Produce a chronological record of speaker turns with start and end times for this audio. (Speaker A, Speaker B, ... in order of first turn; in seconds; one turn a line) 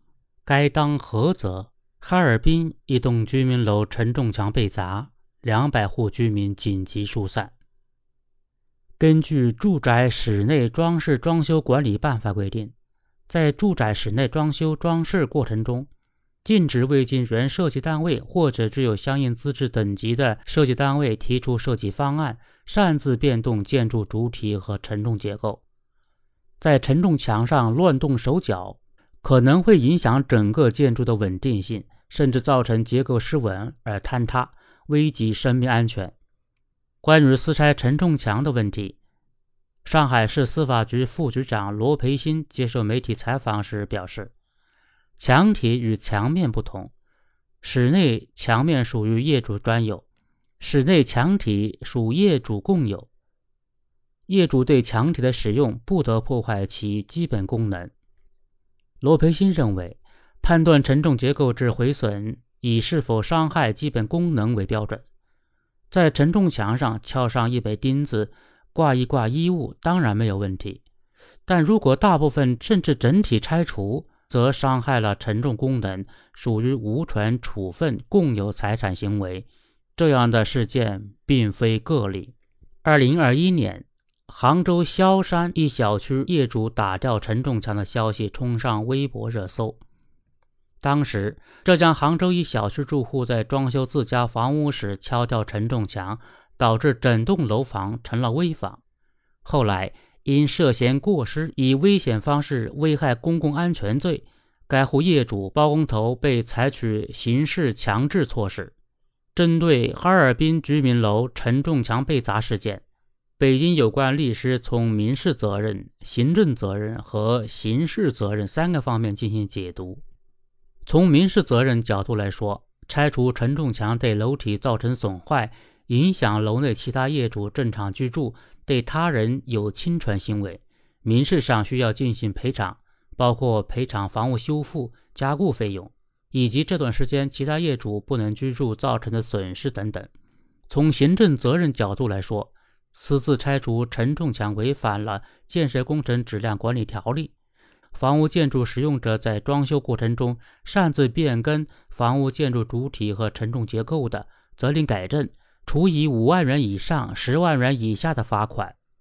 Speaker A: 0.5-7.5
Speaker A: 9.0-12.7
Speaker A: 13.3-15.9
Speaker A: 16.4-25.6
Speaker A: 26.6-36.1
Speaker A: 37.0-39.0
Speaker A: 39.9-44.3
Speaker A: 45.2-46.9
Speaker A: 47.6-50.0
Speaker A: 50.6-53.1
Speaker A: 54.3-57.9
Speaker A: 59.0-65.0
Speaker A: 65.9-70.8
Speaker A: 71.5-89.8
Speaker A: 90.8-98.8
Speaker A: 99.4-108.7
Speaker A: 109.3-112.8
Speaker A: 113.4-120.0
Speaker A: 120.9-140.1
Speaker A: 140.7-147.3
Speaker A: 147.9-158.8